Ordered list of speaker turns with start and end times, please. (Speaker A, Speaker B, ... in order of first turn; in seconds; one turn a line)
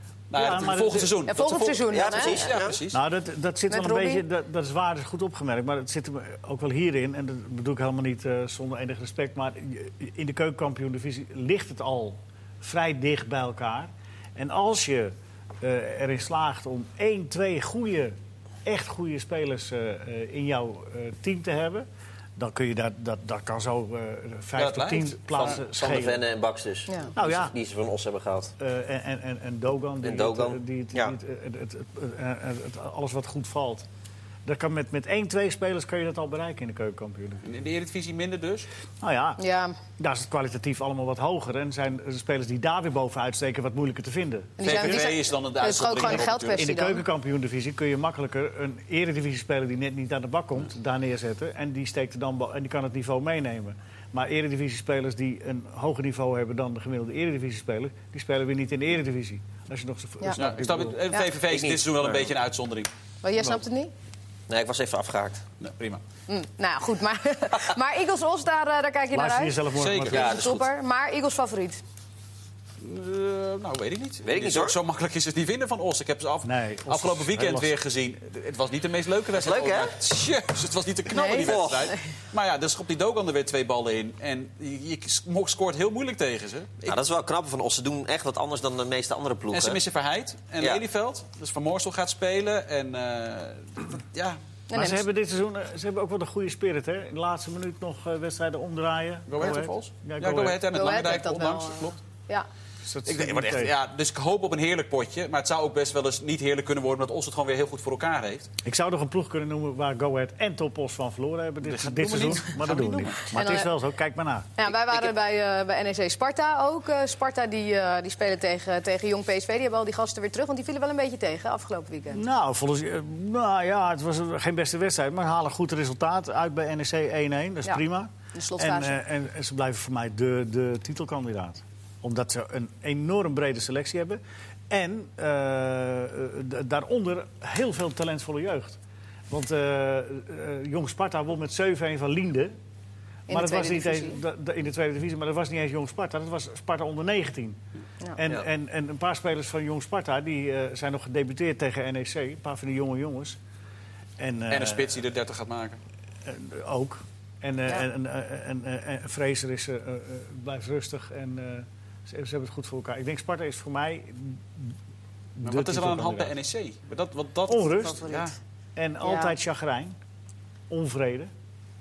Speaker A: 0.3-3.0
Speaker B: 0.3-1.2
Speaker C: 1.3-2.5
Speaker D: 1.9-2.8
Speaker B: 2.9-21.9
Speaker C: 3.7-4.2
Speaker B: 22.4-26.2
Speaker A: 24.6-25.6
Speaker D: 25.3-28.5
Speaker C: 26.9-27.1
Speaker B: 27.1-27.5
Speaker B: 28.6-33.8
Speaker D: 30.0-31.1
Speaker B: 34.4-37.4
Speaker A: 37.4-38.7
Speaker B: 39.0-39.4
Speaker C: 39.4-39.8
Speaker B: 40.0-45.1
Speaker C: 44.6-47.0
Speaker A: 44.6-46.7
Speaker B: 46.0-61.0
Speaker A: 60.3-62.9
Speaker D: 61.5-62.3
Speaker C: 63.2-63.9
Speaker D: 64.5-65.4
Speaker A: 65.6-66.0
Speaker C: 66.3-69.6
Speaker B: 69.1-70.4
Speaker A: 69.8-70.3
Speaker D: 70.0-70.7
Speaker C: 70.1-71.8
Speaker A: 72.8-87.0
Speaker D: 74.2-74.8
Speaker B: 76.4-77.7
Speaker D: 79.3-79.9
Speaker C: 81.1-82.0
Speaker D: 81.3-81.9
Speaker D: 86.9-89.8
Speaker A: 89.5-94.4
Speaker C: 94.7-95.0
Speaker B: 94.7-100.6
Speaker A: 99.3-102.0
Speaker C: 100.7-102.5
Speaker B: 102.8-103.7
Speaker A: 103.0-108.5
Speaker B: 108.6-114.5
Speaker A: 111.6-113.3
Speaker C: 113.3-113.7
Speaker C: 114.6-122.2
Speaker B: 122.1-138.8
Speaker C: 128.3-129.0
Speaker B: 139.3-142.5
Speaker C: 143.3-144.2
Speaker B: 143.3-147.6
Speaker B: 148.2-153.4
Speaker B: 154.2-155.0
Speaker A: 154.5-155.8
Speaker B: 156.2-164.7
Speaker B: 165.3-166.3
Speaker A: 165.4-168.3
Speaker B: 167.5-168.1
Speaker C: 167.8-168.3
Speaker B: 168.8-169.9
Speaker C: 169.0-169.3
Speaker B: 170.7-171.3